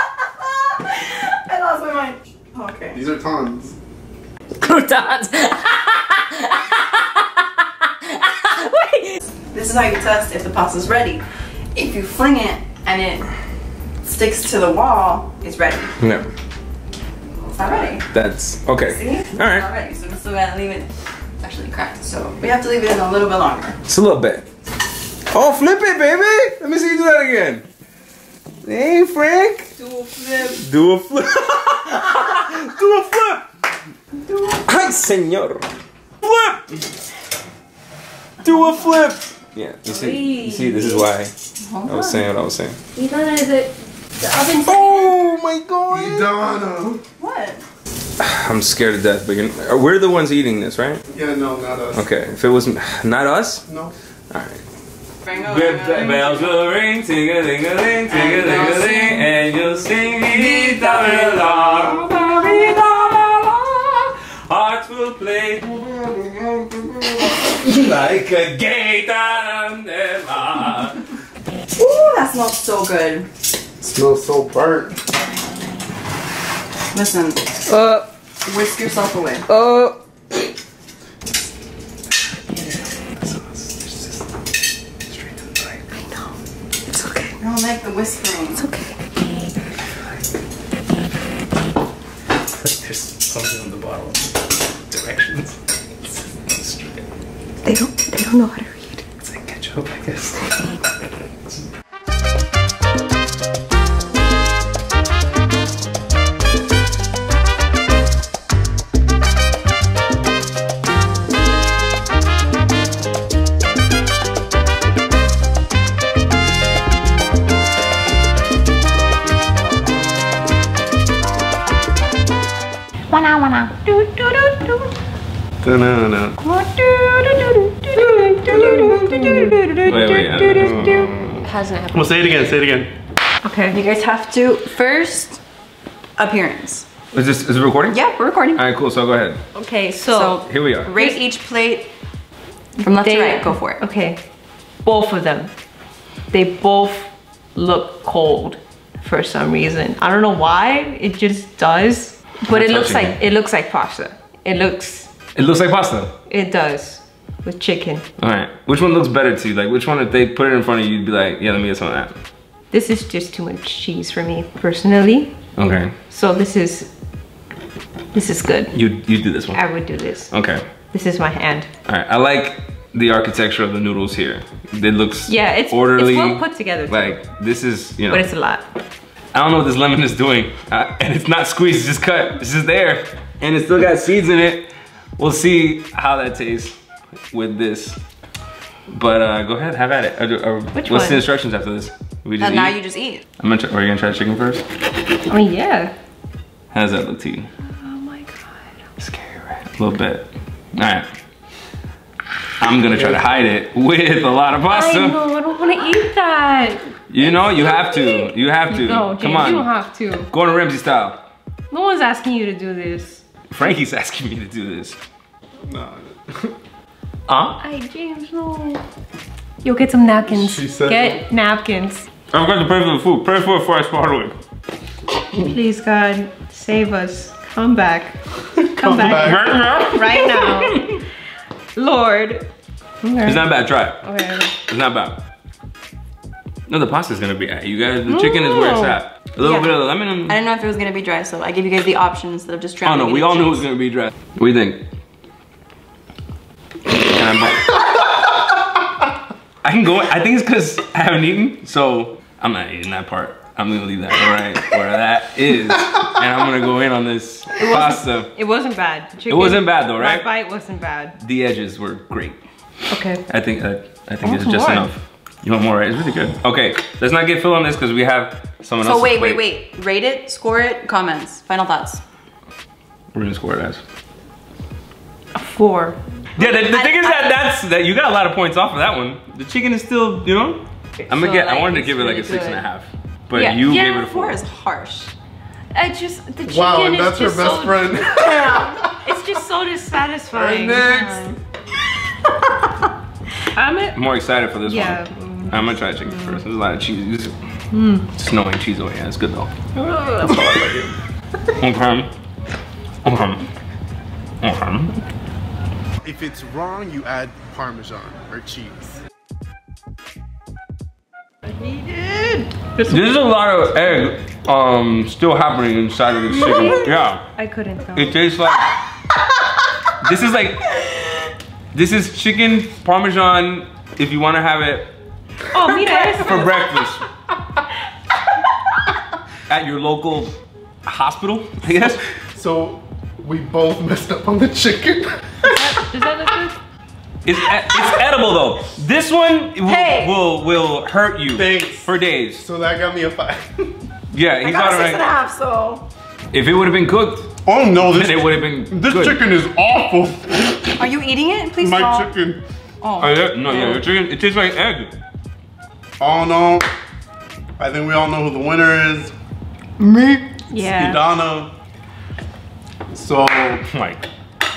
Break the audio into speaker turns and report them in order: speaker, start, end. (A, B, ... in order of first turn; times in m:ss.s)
0:00.4-0:03.0 A
0:02.9-0:03.8 B
0:04.6-0:06.2 C
0:08.2-0:09.2 C
0:09.5-0:11.2 A
0:11.8-0:13.2 A
0:14.0-0:16.0 A
0:16.0-0:16.2 D
0:17.5-0:18.1 A
0:18.0-0:19.7 D
0:18.8-0:20.9 A
0:21.4-0:23.8 A
0:23.9-0:24.4 D
0:25.3-0:27.6 D
0:28.6-0:29.7 D
0:29.8-0:30.6 A
0:30.4-0:33.4 D
0:34.6-0:35.7 D
0:36.2-0:36.7 D
0:38.4-0:41.3 D
0:39.9-0:41.1 C
0:41.6-0:42.3 A
0:41.8-0:42.8 D
0:42.9-0:45.1 C
0:44.5-0:46.4 D
0:45.9-0:47.0 B
0:47.2-0:47.6 A
0:48.2-0:51.0 D
0:51.1-0:52.1 B
0:51.9-0:53.6 D
0:53.7-0:53.9 B
0:54.3-0:54.6 D
0:55.2-0:56.4 A
0:55.3-1:11.1 D
0:58.1-0:58.8 A
1:11.8-1:13.3 A
1:13.8-1:15.0 B
1:16.9-1:17.5 A
1:17.7-1:18.1 C
1:18.4-1:19.4 A
1:19.5-1:20.0 C
1:23.2-1:24.2 D
1:25.1-1:25.9 D
1:26.9-1:27.3 C
1:27.4-1:28.6 A
1:28.6-1:29.0 C
1:32.5-1:34.4 D
1:34.9-1:37.1 D
1:37.6-1:39.0 C
1:39.2-1:40.8 D
2:03.1-2:04.8 C
2:05.6-2:06.4 B
2:06.4-2:12.0 C
2:08.6-2:09.6 A
2:09.8-2:11.5 D
2:11.9-2:12.9 B
2:13.4-2:13.8 C
2:13.7-2:15.4 A
2:16.2-2:16.9 A
2:17.1-2:19.4 D
2:17.9-2:18.6 A
2:19.5-2:20.4 C
2:20.1-2:21.9 A
2:20.4-2:20.9 D
2:22.8-2:23.8 A
2:23.0-2:24.2 C
2:24.8-2:25.5 C
2:26.3-2:35.1 C
2:32.4-2:33.2 D
2:35.4-2:36.1 D
2:36.3-2:38.1 C
2:38.2-2:42.2 D
2:42.7-2:45.3 C
2:45.6-2:45.9 D
2:46.1-2:46.9 C
2:48.1-2:48.8 C
2:48.7-2:49.6 D
2:49.5-2:50.3 C
2:50.3-2:50.6 D
2:50.9-2:51.7 C
2:51.8-2:58.3 D
2:55.3-2:57.2 C
2:58.1-2:58.6 C
2:59.3-3:06.7 D
3:07.3-3:08.0 D
3:08.9-3:12.8 D
3:10.7-3:11.2 C
3:12.4-3:13.2 A
3:13.4-3:14.6 D
3:15.3-3:15.9 C
3:16.7-3:17.5 D
3:17.6-3:18.7 C
3:19.0-3:21.1 D
3:22.6-3:25.2 D
3:24.7-3:30.3 C
3:27.1-3:29.7 D
3:30.3-3:31.3 D
3:31.7-3:33.2 C
3:33.5-3:35.0 D
3:35.6-3:36.6 B
3:37.3-3:37.6 D
3:37.6-3:38.8 C
3:39.6-3:42.1 C
3:40.3-3:41.2 B
3:42.3-3:44.4 D
3:45.4-3:48.2 C
3:48.8-3:51.0 C
3:48.8-3:49.7 B
3:49.0-3:50.0 D
3:51.8-3:52.5 C
3:53.0-3:53.5 C
3:53.2-3:54.0 D
3:54.0-3:54.5 C
3:54.6-3:55.2 D
3:56.7-4:00.4 D
3:58.1-3:59.0 C
3:59.4-4:03.7 A
4:02.8-4:04.8 D
4:07.0-4:08.1 D
4:09.6-4:18.3 D
4:17.6-4:21.2 C
4:19.3-4:20.3 D
4:21.2-4:22.4 D
4:22.9-4:23.2 C
4:23.3-4:29.5 D
4:24.2-4:24.9 C
4:28.8-4:32.0 A
4:33.1-4:33.8 D
4:35.3-4:36.0 C
4:36.4-4:44.4 D
4:36.4-4:37.3 A
4:41.0-4:42.6 C
4:43.4-4:45.1 A
4:43.4-4:43.7 C
4:45.7-4:51.0 C
4:46.4-4:49.2 B
4:50.3-4:51.3 B
4:50.7-4:51.3 A
4:53.5-4:54.0 C
4:53.9-4:57.3 D
4:54.7-4:56.4 C
4:57.7-4:58.1 C
4:58.1-4:59.5 D
4:59.8-5:00.7 C
5:00.2-5:00.9 D
5:01.6-5:02.1 D
5:03.0-5:03.4 D
5:04.4-5:04.9 D
5:06.0-5:09.0 B
5:11.6-5:13.1 C
5:12.9-5:17.2 D
5:16.4-5:18.2 C
5:17.9-5:18.7 D
5:20.0-5:20.8 D
5:21.7-5:24.9 D
5:25.5-5:26.5 C
5:25.6-5:27.0 D
5:29.5-5:30.3 D
5:30.8-5:32.0 D
5:32.3-5:35.8 B
5:35.4-5:36.6 C
5:37.2-5:42.4 D
5:39.7-5:40.1 A
5:41.3-5:43.7 B
5:44.1-5:45.1 D
5:44.4-5:45.8 A
5:46.3-5:49.2 D
5:47.4-5:50.8 B
5:50.8-5:52.1 A
5:51.6-5:52.4 B
5:52.8-5:53.8 A
5:53.0-5:54.9 D
5:56.0-5:56.7 B
5:57.6-5:59.1 B
5:59.8-6:00.2 A
6:00.5-6:01.0 C
6:00.6-6:01.5 B
6:02.9-6:03.6 B
6:03.7-6:04.0 D